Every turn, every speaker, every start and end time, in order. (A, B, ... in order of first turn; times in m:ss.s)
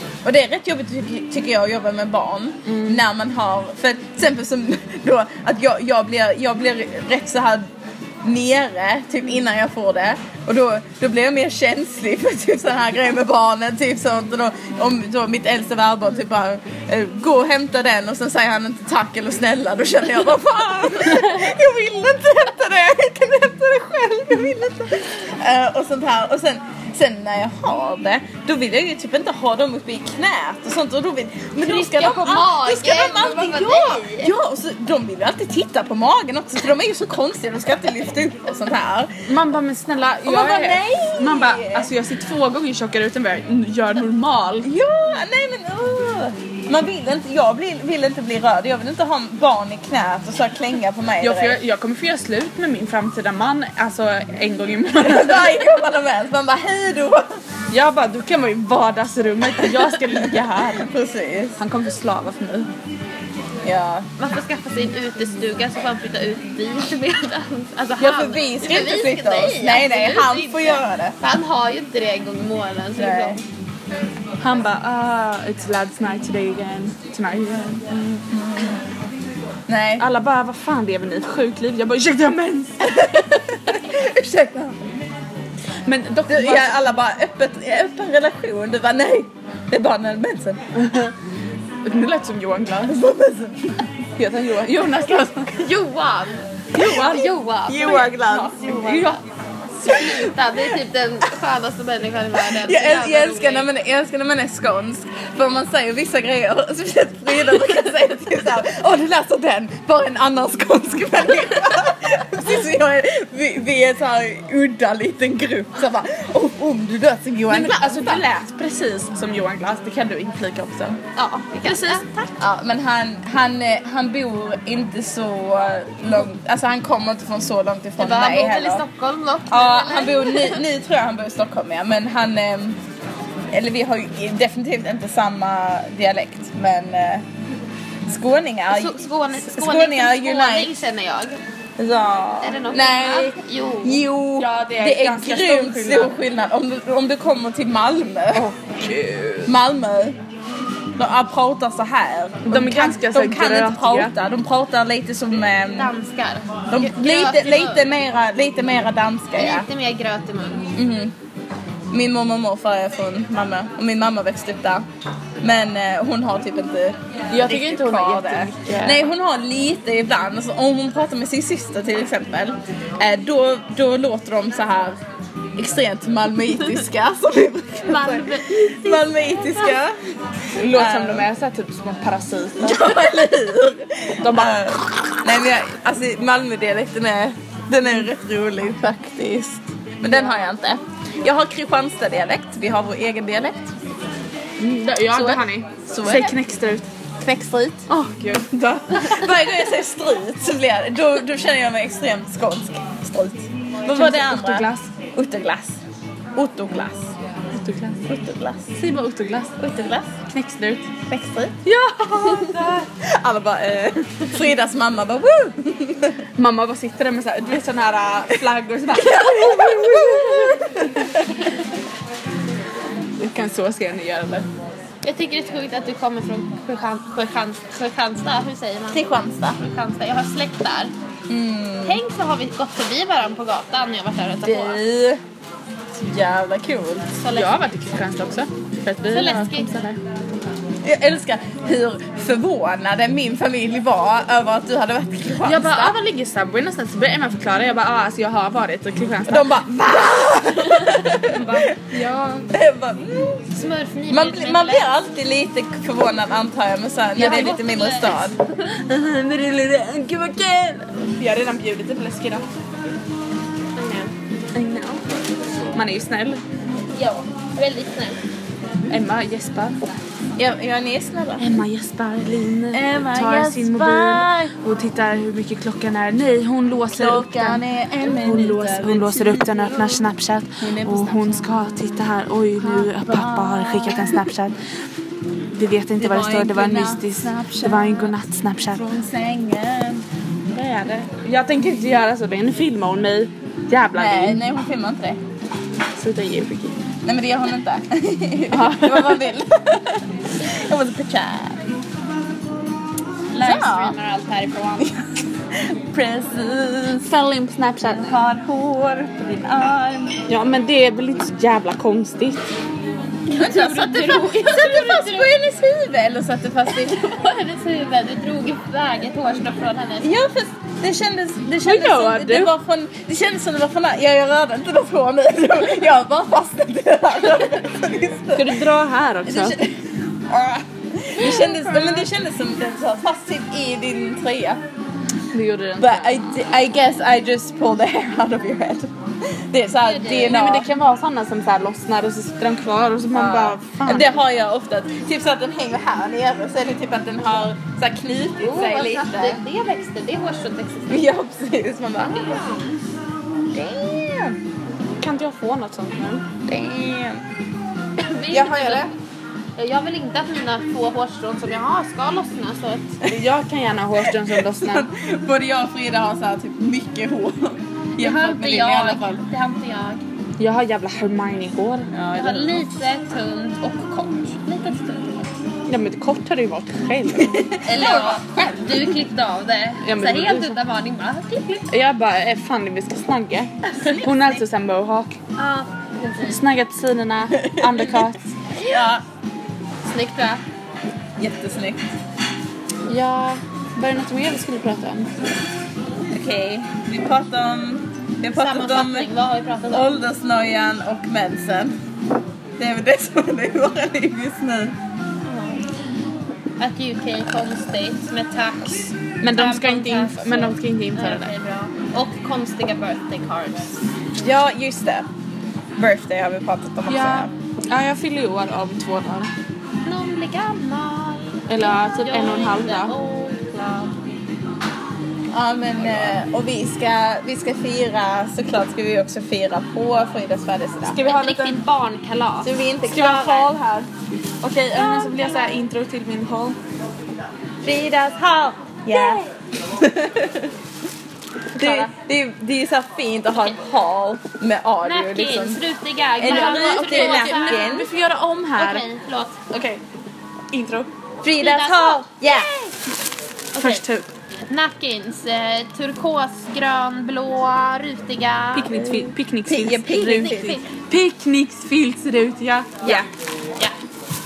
0:00.2-0:07.6 A
0:02.6-0:03.0 B
0:08.2-0:39.1 A
0:31.6-0:34.3 C
0:39.3-0:44.7 B
0:40.2-0:41.9 A
0:44.6-0:51.6 A
0:51.2-0:55.6 B
0:55.0-0:57.3 A
0:57.7-1:00.9 B
1:00.3-1:01.6 A
1:01.6-1:02.7 B
1:03.6-1:04.1 A
1:04.2-1:13.4 C
1:08.0-1:11.2 A
1:13.0-1:13.4 A
1:14.4-1:18.2 B
1:18.3-1:18.8 A
1:19.7-1:20.0 A
1:20.0-1:23.0 B
1:22.8-1:24.8 A
1:25.8-1:26.8 B
1:26.3-1:30.6 A
1:30.7-1:31.1 B
1:31.8-1:33.0 B
1:32.9-1:33.8 A
1:34.2-1:35.5 B
1:35.5-1:39.2 C
1:36.7-1:37.4 B
1:36.8-1:38.6 A
1:38.4-1:39.2 B
1:39.8-1:43.7 C
1:39.9-1:40.3 A
1:42.4-1:58.2 A
1:57.5-2:01.0 B
2:01.2-2:02.0 C
2:01.6-2:02.3 B
2:02.4-2:08.8 A
2:08.0-2:10.6 C
2:09.5-2:12.8 A
2:13.5-2:17.2 A
2:18.1-2:20.8 A
2:18.7-2:21.4 C
2:21.8-2:28.5 A
2:22.4-2:24.0 C
2:24.4-2:26.2 B
2:28.3-2:29.5 B
2:29.4-2:30.2 A
2:31.0-2:35.9 A
2:32.4-2:34.1 B
2:35.8-2:37.8 C
2:36.7-2:39.7 A
2:39.4-2:40.7 C
2:40.8-2:41.1 A
2:41.9-2:44.8 A
2:45.4-2:55.0 A
2:47.3-2:49.0 B
2:55.6-3:00.0 A
2:57.9-2:59.7 C
3:00.6-3:03.0 B
3:00.7-3:01.2 A
3:02.6-3:13.7 A
3:04.2-3:04.7 B
3:14.6-3:16.8 B
3:15.1-3:16.4 A
3:17.2-3:17.8 A
3:17.9-3:18.5 B
3:18.5-3:25.8 A
3:23.9-3:24.8 B
3:26.4-3:27.1 A
3:27.5-3:28.1 B
3:28.1-3:28.8 A
3:28.8-3:29.6 B
3:29.6-3:30.2 A
3:30.3-3:30.9 B
3:31.1-3:31.5 A
3:31.6-3:32.9 B
3:32.4-3:36.2 A
3:36.4-3:41.2 B
3:38.9-3:41.3 A
3:43.2-3:44.5 B
3:45.0-3:50.9 C
3:48.9-3:49.6 A
3:51.3-3:52.0 A
3:51.8-3:54.8 C
3:54.4-3:55.2 A
3:55.9-3:57.1 A
3:57.2-3:57.6 C
3:57.3-4:00.0 B
3:59.1-3:59.8 C
4:00.8-4:06.0 A
4:05.4-4:09.6 B
4:09.3-4:12.0 A
4:10.8-4:12.5 B
4:12.5-4:13.4 A
4:13.5-4:14.9 C
4:14.1-4:18.4 A
4:17.2-4:18.3 C
4:17.2-4:17.6 B
4:18.6-4:22.5 B
4:23.8-4:24.1 C
4:24.5-4:25.0 B
4:25.7-4:26.4 B
4:26.9-4:28.2 C
4:28.9-4:29.8 B
4:30.4-4:31.6 A
4:31.4-4:44.5 B
4:32.7-4:34.5 A
4:36.9-4:40.1 A
4:40.6-4:41.5 A
4:42.6-4:44.3 A
4:45.5-4:48.8 B
4:46.0-4:48.1 A
4:48.7-4:50.0 A
4:50.5-4:54.4 B
4:53.9-4:55.2 A
4:56.0-4:56.7 B
4:57.0-5:01.7 A
4:58.5-4:59.2 B
5:03.3-5:04.9 C
5:03.4-5:04.0 A
5:04.8-5:07.1 A
5:07.0-5:08.1 B
5:07.9-5:10.2 A
5:10.3-5:12.5 B
5:13.3-5:15.4 C
5:13.3-5:17.1 A
5:16.8-5:20.1 C
5:20.0-5:28.6 A
5:21.6-5:22.5 B
5:28.3-5:29.6 B
5:29.2-5:34.6 A
5:31.3-5:32.0 B
5:35.3-5:36.2 B
5:35.8-5:40.7 A
5:39.8-5:40.4 C
5:40.2-5:44.1 B
5:43.1-5:49.4 A
5:48.4-5:51.1 C
5:50.9-5:52.5 A
5:52.1-5:52.6 C
5:53.5-5:54.4 A
5:55.0-5:56.3 B
5:56.4-5:57.2 A
5:58.0-5:58.9 C
5:58.3-5:58.9 A
5:59.6-6:03.0 C
6:03.1-6:04.9 B
6:04.1-6:09.2 A
6:08.0-6:10.0 C
6:10.4-6:11.9 B
6:11.9-6:12.8 A
6:12.1-6:15.3 C
6:15.7-6:17.5 B
6:17.2-6:18.2 A
6:17.6-6:21.7 C
6:19.8-6:20.6 B
6:21.7-6:25.2 B
6:23.7-6:24.4 A
6:25.4-6:26.4 C
6:26.3-6:28.3 B
6:27.6-6:27.8 A
6:28.6-6:28.9 C
6:28.6-6:29.0 A
6:29.8-6:30.4 C
6:31.2-6:31.9 A
6:32.9-6:35.1 B
6:36.1-6:39.1 A
6:38.3-6:40.0 C
6:39.7-6:41.8 A
6:42.6-6:44.8 A
6:45.3-6:45.6 C
6:46.6-6:53.7 C
6:49.2-6:51.3 B
6:54.2-6:55.1 A
6:55.8-6:57.3 A
6:56.9-6:59.3 B
6:59.8-7:03.9 C
7:01.5-7:02.9 B
7:05.3-7:11.0 A
7:10.9-7:11.6 B
7:11.0-7:12.5 C
7:12.4-7:13.5 A
7:12.9-7:13.9 B
7:14.4-7:16.6 B
7:17.6-7:20.5 A
7:21.5-7:21.9 B
7:21.5-7:25.6 A
7:24.8-7:27.7 C
7:26.2-7:27.9 A
7:26.2-7:28.8 B
7:28.6-7:29.4 C
7:29.5-7:29.8 B
7:30.5-7:30.9 B
7:31.2-7:32.5 A
7:31.3-7:32.8 C
7:33.6-7:33.8 C
7:33.6-7:34.1 B
7:34.5-7:38.8 C
7:38.5-7:43.0 B
7:38.8-7:40.6 A
7:40.2-7:40.7 C